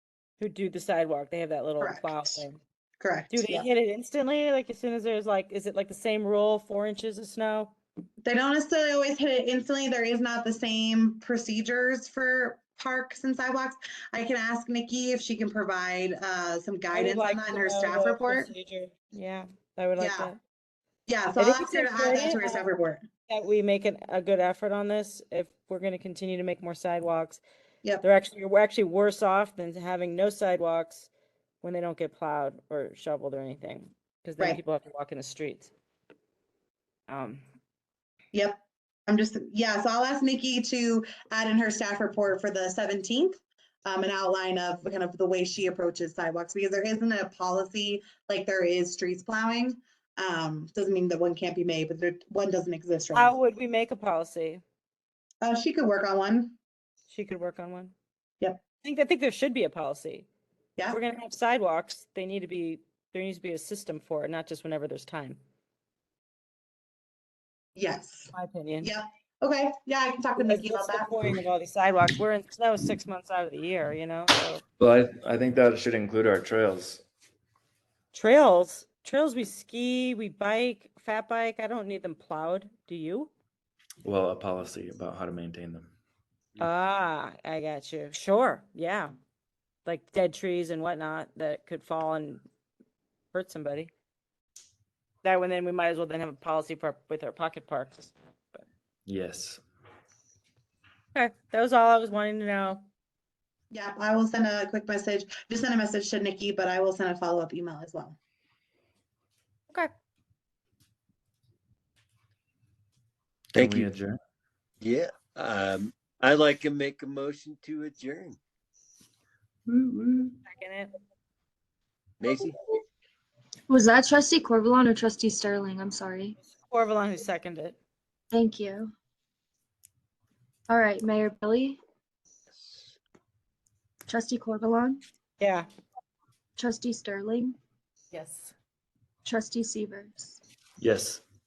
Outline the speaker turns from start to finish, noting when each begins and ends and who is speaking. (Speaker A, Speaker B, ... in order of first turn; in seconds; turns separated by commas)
Speaker A: 0.4-2.6, Speaker B: 1.8-2.5, Speaker B: 3.0-3.7, Speaker A: 3.3-7.7, Speaker B: 8.2-18.5, Speaker A: 16.9-20.4, Speaker B: 20.0-20.3, Speaker B: 21.1-23.0, Speaker A: 21.4-22.6, Speaker A: 23.3-27.4, Speaker A: 28.0-31.1, Speaker A: 31.6-35.7, Speaker A: 37.1-37.4, Speaker B: 38.3-53.3, Speaker A: 53.1-54.6, Speaker B: 55.4-56.6, Speaker A: 57.1-57.9, Speaker A: 58.8-60.3, Speaker A: 60.9-65.4, Speaker B: 67.7-71.2, Speaker A: 68.3-68.9, Speaker A: 70.4-74.6, Speaker C: 74.8-77.0, Speaker A: 78.1-83.3, Speaker C: 84.0-85.9, Speaker A: 86.6-89.1, Speaker A: 89.8-92.4, Speaker A: 93.3-93.9, Speaker A: 95.2-98.6, Speaker C: 99.0-99.6, Speaker A: 101.1-102.8, Speaker B: 103.7-108.2, Speaker C: 113.5-114.2, Speaker D: 113.5-113.9, Speaker D: 114.8-118.4, Speaker A: 120.5-120.9, Speaker D: 122.2-122.6, Speaker E: 123.7-126.3, Speaker A: 126.5-127.8, Speaker E: 128.3-128.9, Speaker E: 130.7-131.8, Speaker D: 132.5-132.9, Speaker E: 134.1-135.0, Speaker A: 135.4-135.7, Speaker E: 136.6-137.6, Speaker A: 138.1-138.5, Speaker E: 139.2-140.4, Speaker C: 140.8-141.2